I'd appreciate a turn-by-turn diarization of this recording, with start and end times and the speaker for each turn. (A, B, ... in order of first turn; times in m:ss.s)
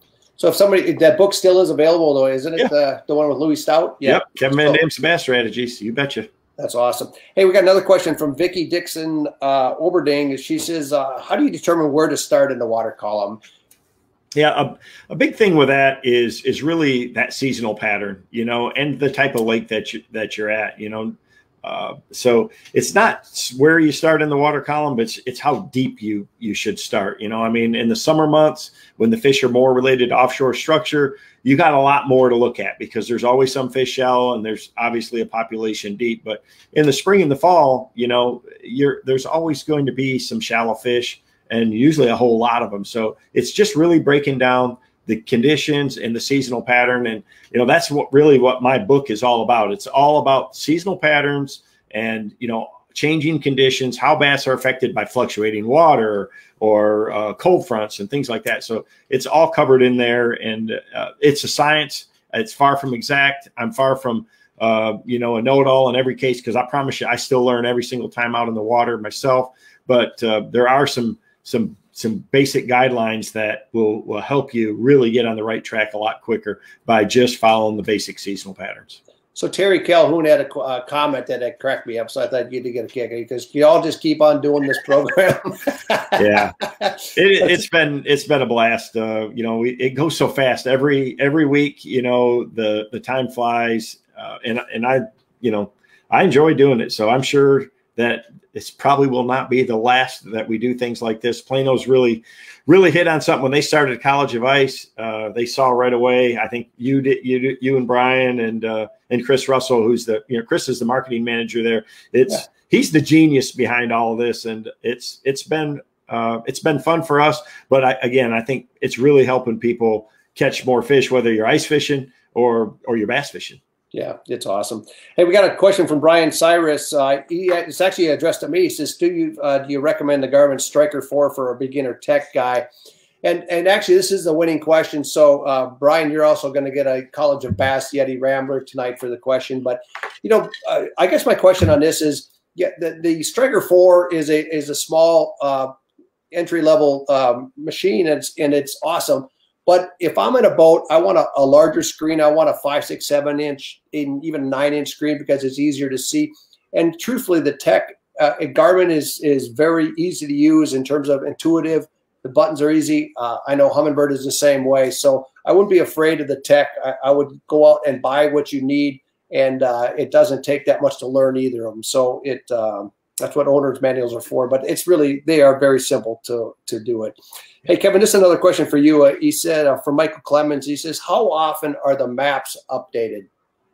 0:00.4-0:04.8 A
0:04.0-0:06.3 B
0:06.6-0:13.4 A
0:14.3-1:19.0 B
1:19.4-1:26.3 A
1:26.2-1:26.6 B
1:26.8-1:27.5 A
1:27.1-2:03.6 B
2:03.9-2:12.7 A
2:13.2-2:25.7 A
2:26.3-3:03.3 A